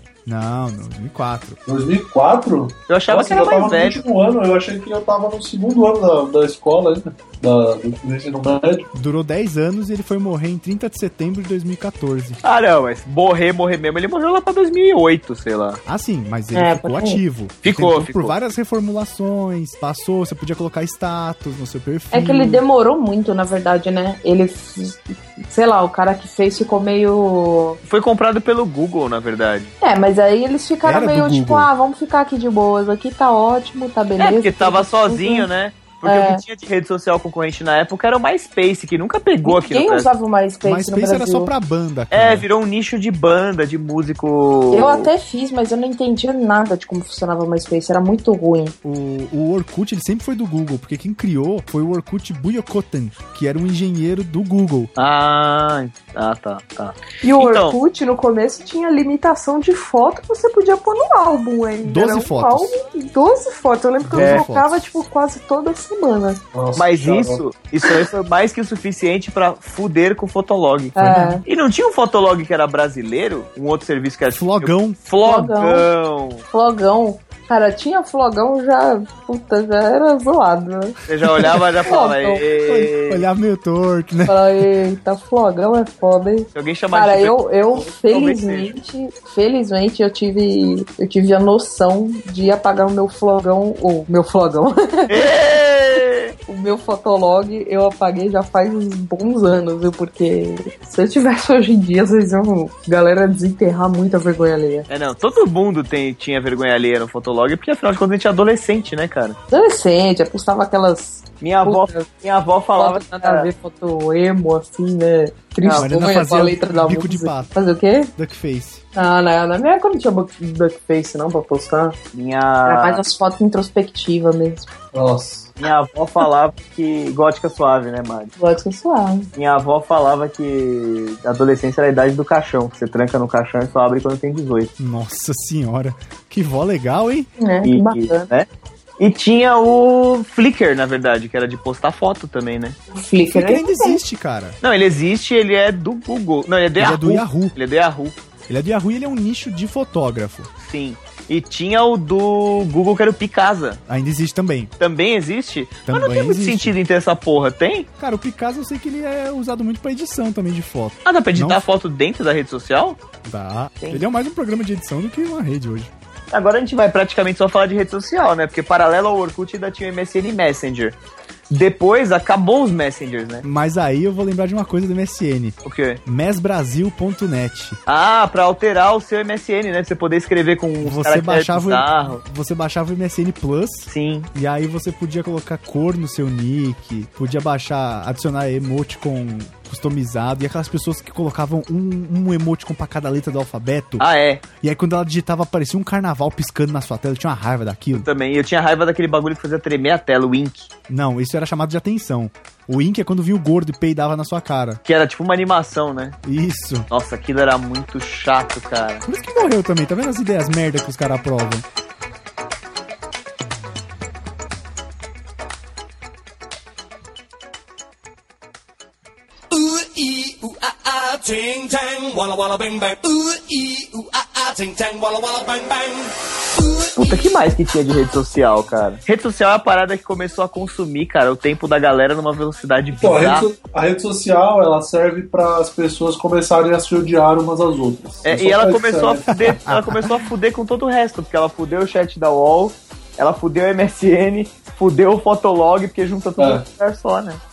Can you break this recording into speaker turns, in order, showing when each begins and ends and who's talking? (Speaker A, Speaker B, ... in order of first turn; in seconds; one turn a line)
Speaker A: 0.3-1.6
Speaker B: 1.7-8.9
Speaker C: 2.9-4.0
Speaker A: 8.9-12.4
Speaker C: 12.4-15.8
Speaker A: 15.8-22.6
Speaker D: 16.5-17.2
Speaker C: 17.6-18.3
Speaker D: 22.1-27.8
Speaker C: 27.8-29.7
Speaker D: 29.8-35.5
Speaker A: 30.8-31.7
Speaker C: 34.2-40.1
Speaker D: 36.0-36.4
Speaker D: 39.5-41.5
Speaker A: 40.6-42.5
Speaker C: 42.1-45.1
Speaker D: 44.7-48.8
Speaker A: 48.8-54.9
Speaker C: 55.0-57.8
Speaker D: 57.2-66.4
Speaker A: 61.8-62.8
Speaker A: 64.0-64.8
Speaker C: 64.2-64.5
Speaker B: 66.5-67.4
Speaker C: 66.8-76.4
Speaker D: 71.0-71.4
Speaker A: 71.0-71.4
Speaker A: 74.3-75.0
Speaker D: 75.2-75.9
Speaker D: 76.5-82.4
Speaker C: 81.1-83.2
Speaker A: 82.7-84.7
Speaker D: 84.3-95.2
Speaker C: 86.5-88.7
Speaker C: 95.1-96.3
Speaker D: 96.5-104.9
Speaker C: 104.9-109.4
Speaker D: 109.5-112.1
Speaker C: 111.4-113.5
Speaker D: 112.8-118.1
Speaker A: 115.7-117.5
Speaker A: 118.2-118.8
Speaker D: 119.0-122.0
Speaker C: 122.1-123.0
Speaker D: 122.7-124.7
Speaker B: 124.9-125.5
Speaker C: 125.6-128.3
Speaker D: 128.4-129.3
Speaker C: 129.3-134.7
Speaker A: 134.8-137.3
Speaker D: 137.4-138.3
Speaker C: 137.6-138.5
Speaker C: 139.0-142.8
Speaker D: 142.9-144.0
Speaker A: 143.3-144.6
Speaker C: 144.6-148.2
Speaker A: 146.8-147.6
Speaker A: 148.5-150.5
Speaker C: 150.6-153.8
Speaker A: 153.9-154.7
Speaker C: 154.8-157.9
Speaker A: 155.9-156.8
Speaker A: 158.0-161.6
Speaker C: 161.1-163.0
Speaker A: 163.2-165.9
Speaker C: 166.3-171.0
Speaker C: 171.5-173.5
Speaker A: 173.4-177.8
Speaker C: 175.6-176.0
Speaker C: 177.9-182.2
Speaker A: 180.8-194.1
Speaker C: 183.9-184.3
Speaker C: 194.0-194.4
Speaker A: 194.6-198.1
Speaker C: 197.9-200.7
Speaker A: 200.9-204.8
Speaker C: 204.8-206.2
Speaker A: 206.2-206.9
Speaker C: 206.9-209.1
Speaker A: 209.1-211.7
Speaker E: 219.5-226.9
Speaker C: 226.9-233.5
Speaker B: 233.0-239.5
Speaker C: 238.2-247.4
Speaker A: 239.5-240.1
Speaker B: 246.4-246.6